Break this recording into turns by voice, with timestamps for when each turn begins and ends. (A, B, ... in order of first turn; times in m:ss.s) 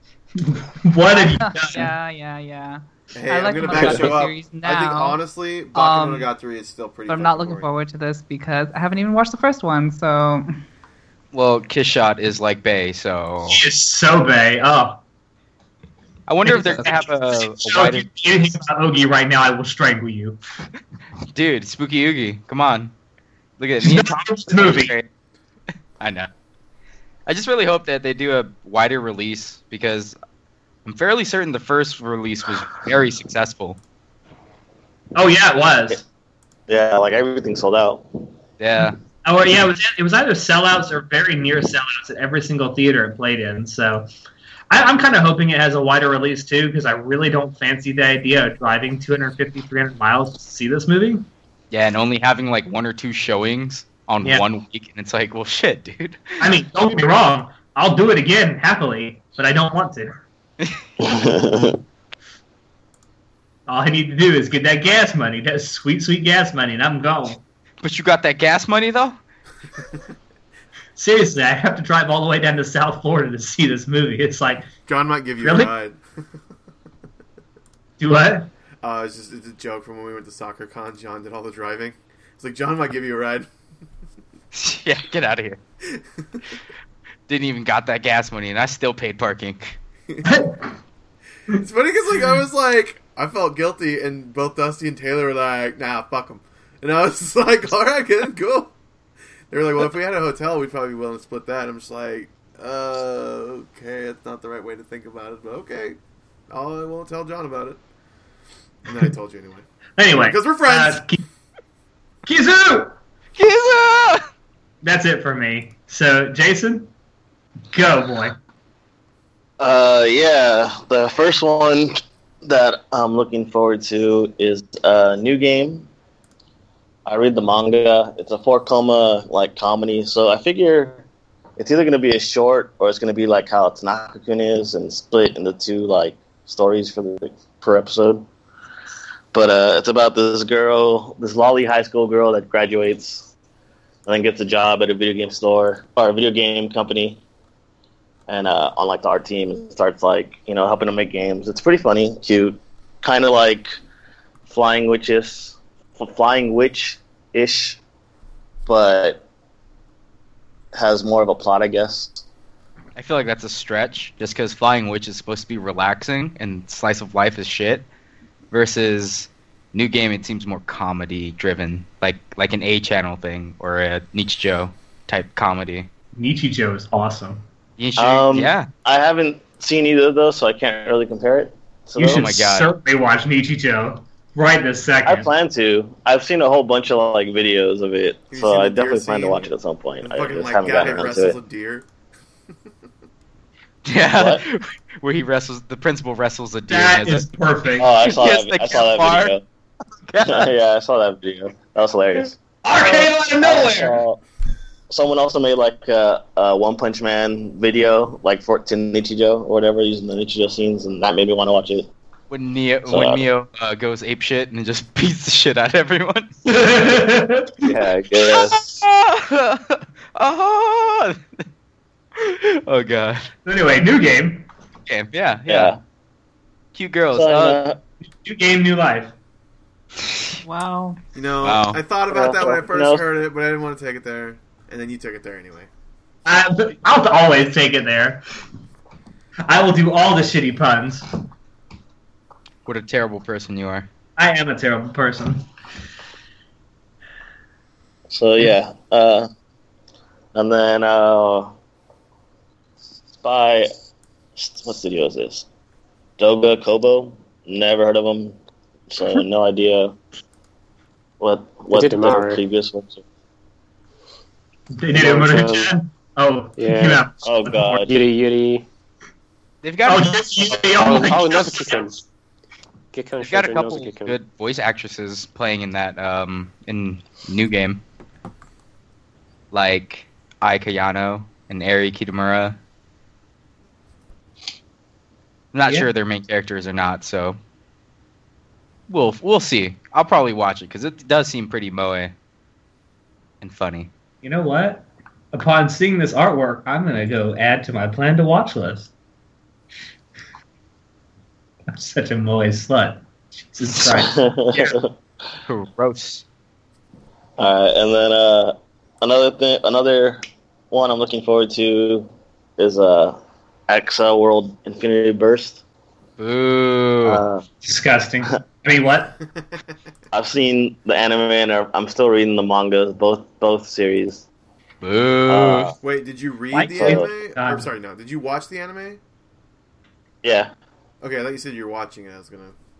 0:00.5-0:01.9 A
0:01.2-0:05.2 B
0:03.1-0:07.7 C
0:03.6-0:04.0 A
0:05.7-0:06.3 B
0:07.1-0:10.5 B
0:11.3-0:13.6 D
0:13.5-0:15.0 A
0:16.3-0:18.1 D
0:16.4-0:20.4 A
0:21.3-0:22.9 D
0:23.6-0:25.1 D
0:23.8-0:24.9 A
0:26.0-0:26.3 D
0:27.3-0:30.1 D
0:30.8-0:33.8 D
0:35.1-0:36.0 A
0:36.7-0:38.3 E
0:38.6-0:39.0 D
0:39.2-0:44.1 A
0:44.7-0:51.3 A
0:51.7-0:56.4 D
0:56.4-1:00.2 A
1:01.0-1:01.8 E
1:03.7-1:07.4 A
1:07.8-1:09.2 D
1:11.0-1:14.7 A
1:14.9-1:16.0 C
1:15.4-1:15.7 A
1:18.0-1:18.5 A
1:18.8-1:23.5 C
1:24.5-1:25.6 D
1:27.3-1:29.8 D
1:30.2-1:30.6 A
1:31.5-1:38.7 C
1:39.5-1:46.0 C
1:46.5-1:47.8 C
1:48.8-1:51.0 C
1:50.0-1:51.2 A
1:52.2-1:53.0 A
1:53.4-1:54.2 D
1:54.8-1:56.9 A
1:57.7-1:58.4 A
1:59.6-2:05.9 E
2:07.0-2:11.0 E
2:11.6-2:18.2 E
2:19.3-2:23.3 E
2:24.0-2:27.2 E
2:28.3-2:33.8 E
2:34.5-2:37.8 E
2:38.7-2:39.2 E
2:40.7-2:42.2 E
2:43.0-2:47.8 D
2:48.5-2:55.9 D
2:56.1-2:57.4 A
2:57.8-2:58.7 D
2:58.0-3:02.3 E
3:02.0-3:05.3 A
3:02.0-3:02.7 D
3:05.0-3:11.4 E
3:08.3-3:09.5 C
3:10.0-3:11.8 C
3:13.8-3:17.3 D
3:14.2-3:14.4 E
3:16.7-3:17.9 A
3:17.8-3:19.4 E
3:18.0-3:19.3 D
3:20.1-3:20.5 D
3:20.2-3:24.2 E
3:22.6-3:24.0 A
3:24.9-3:31.9 E
3:32.3-3:36.3 D
3:32.9-3:33.2 E
3:36.4-3:37.6 A
3:37.6-3:38.6 E
3:38.2-3:41.2 D
3:42.1-3:43.3 D
3:43.4-3:44.5 A
3:44.8-3:45.8 D
3:45.5-3:45.8 E
3:46.7-3:47.6 D
3:47.1-3:47.8 E
3:48.2-3:49.1 A
3:50.4-3:51.0 B
3:51.1-3:55.7 C
3:51.4-3:51.8 D
3:52.1-3:53.0 E
3:56.2-3:58.2 A
3:59.5-4:01.0 A
4:02.6-4:03.8 D
4:04.2-4:05.4 A
4:08.1-4:09.3 E
4:10.3-4:11.6 E
4:13.2-4:13.7 E
4:14.4-4:15.4 E
4:16.2-4:18.3 E
4:18.9-4:20.0 E
4:21.2-4:23.0 E
4:21.7-4:22.4 F
4:24.7-4:27.7 A
4:24.9-4:25.7 F
4:26.6-4:27.1 F
4:27.2-4:27.9 E
4:27.7-4:28.6 F
4:29.6-4:30.6 D
4:29.8-4:31.9 A
4:30.7-4:32.0 F
4:32.9-4:34.2 F
4:33.2-4:37.8 D
4:39.5-4:42.6 D
4:45.5-4:47.4 D
4:48.9-4:52.1 D
4:53.4-4:53.9 D
4:54.2-4:58.9 A
5:01.7-5:03.0 A
5:03.5-5:04.2 A
5:03.9-5:04.9 E
5:05.5-5:06.2 D
5:07.4-5:15.6 E
5:16.2-5:17.2 D
5:17.0-5:17.4 E
5:17.6-5:19.2 A
5:20.1-5:24.2 E
5:24.8-5:25.7 D
5:25.3-5:25.7 E
5:25.8-5:29.0 C
5:26.5-5:27.6 A
5:26.8-5:27.1 E
5:30.2-5:30.5 E
5:31.0-5:32.5 C